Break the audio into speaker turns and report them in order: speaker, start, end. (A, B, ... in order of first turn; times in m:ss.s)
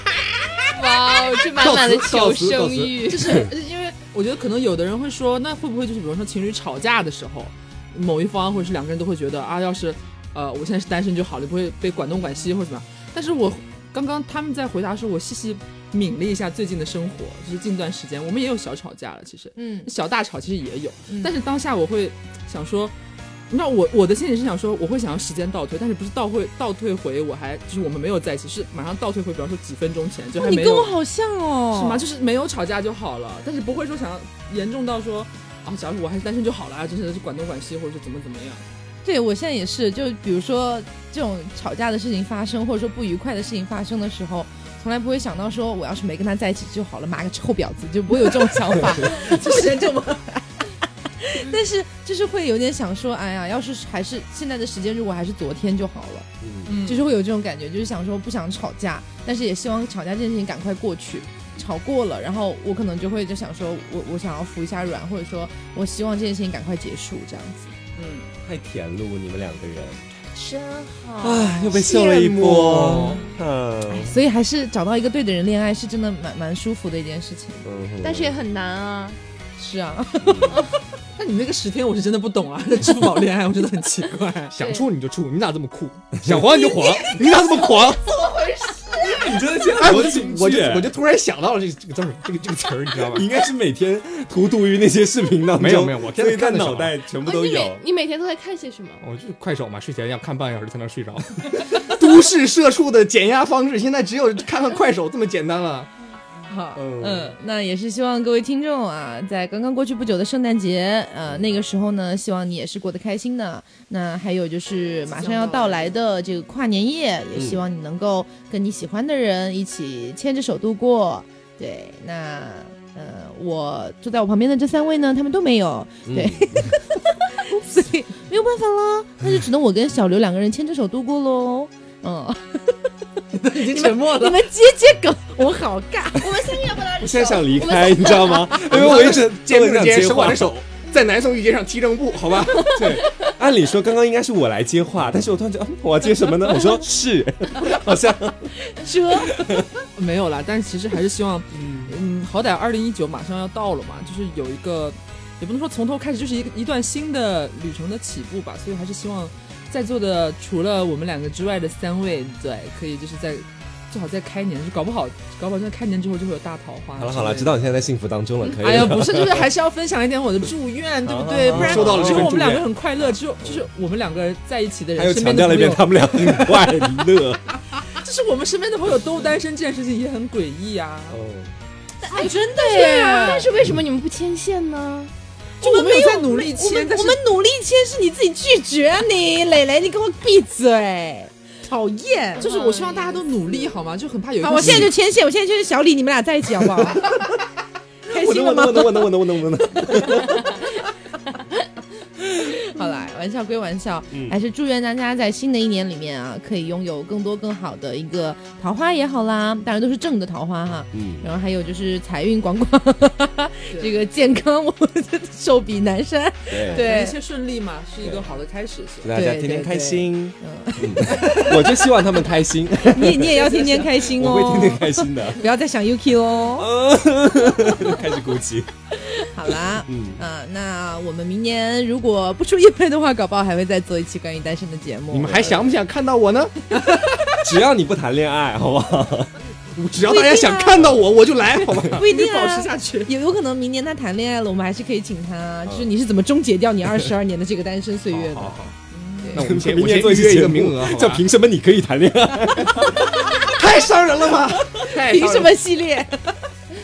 0:00.7-0:03.4 A
0:01.6-0:03.0 B
0:03.0-0:22.9 C
0:19.6-0:19.9 D
0:23.5-0:31.0 C
0:30.4-0:32.0 D
0:31.7-0:38.7 C
0:39.0-0:50.4 D
0:49.0-0:50.2 C
0:51.2-1:07.8 D
0:56.4-0:56.7 E
0:56.7-0:57.1 C
1:08.0-1:08.3 C
1:08.4-1:10.0 E
1:10.3-1:11.8 A
1:11.2-1:14.2 E
1:11.7-1:13.2 B
1:13.9-1:17.7 D
1:17.6-1:18.4 E
1:18.0-1:19.2 A
1:19.6-1:20.6 D
1:20.2-1:20.6 E
1:21.2-1:24.6 C
1:24.5-1:28.0 B
1:24.6-1:24.9 A
1:26.6-1:29.5 A
1:29.0-1:30.9 E
1:29.8-1:33.3 B
1:33.1-1:37.8 E
1:35.6-1:37.0 B
1:37.2-1:39.0 A
1:39.0-1:45.9 B
1:46.5-2:12.8 D
1:46.8-1:47.4 E
1:55.1-1:55.9 C
1:57.4-1:57.6 E
2:06.1-2:06.7 E
2:13.3-2:14.5 C
2:13.5-2:16.9 D
2:16.2-2:18.8 A
2:17.0-2:20.5 E
2:18.6-2:23.0 B
2:22.6-2:23.3 A
2:22.7-2:28.6 E
2:28.6-2:29.4 D
2:29.3-2:29.6 E
2:30.0-2:47.5 C
2:31.5-2:32.0 E
2:47.0-2:49.5 E
2:48.5-2:57.1 C
2:51.0-2:52.4 E
2:51.5-2:52.7 B
2:53.4-2:53.7 E
2:55.0-2:57.4 E
2:57.8-3:01.2 C
3:01.1-3:01.5 E
3:02.0-3:03.5 D
3:02.1-3:05.1 A
3:05.6-3:07.2 C
3:05.6-3:12.5 D
3:12.4-3:14.9 C
3:12.4-3:13.6 A
3:14.4-3:17.2 D
3:18.1-3:19.2 D
3:18.1-3:20.4 E
3:22.6-3:37.2 D
3:24.1-3:24.4 E
3:30.9-3:31.3 E
3:36.5-3:36.8 E
3:36.6-3:39.2 C
3:38.0-3:38.3 E
3:39.0-3:45.4 E
3:39.1-3:41.6 D
3:41.1-3:41.6 C
3:42.8-3:46.7 D
3:43.4-3:44.0 C
3:46.6-3:48.7 E
3:49.2-3:55.6 D
3:49.9-3:50.2 E
3:55.1-3:56.7 B
3:56.9-3:57.2 C
3:57.4-3:59.4 E
3:59.8-4:02.1 B
4:00.0-4:01.0 D
4:01.8-4:09.4 D
4:02.0-4:03.1 C
4:08.1-4:08.8 B
4:08.9-4:09.4 C
4:09.3-4:11.2 B
4:09.4-4:13.3 E
4:12.8-4:15.6 B
4:14.9-4:16.4 D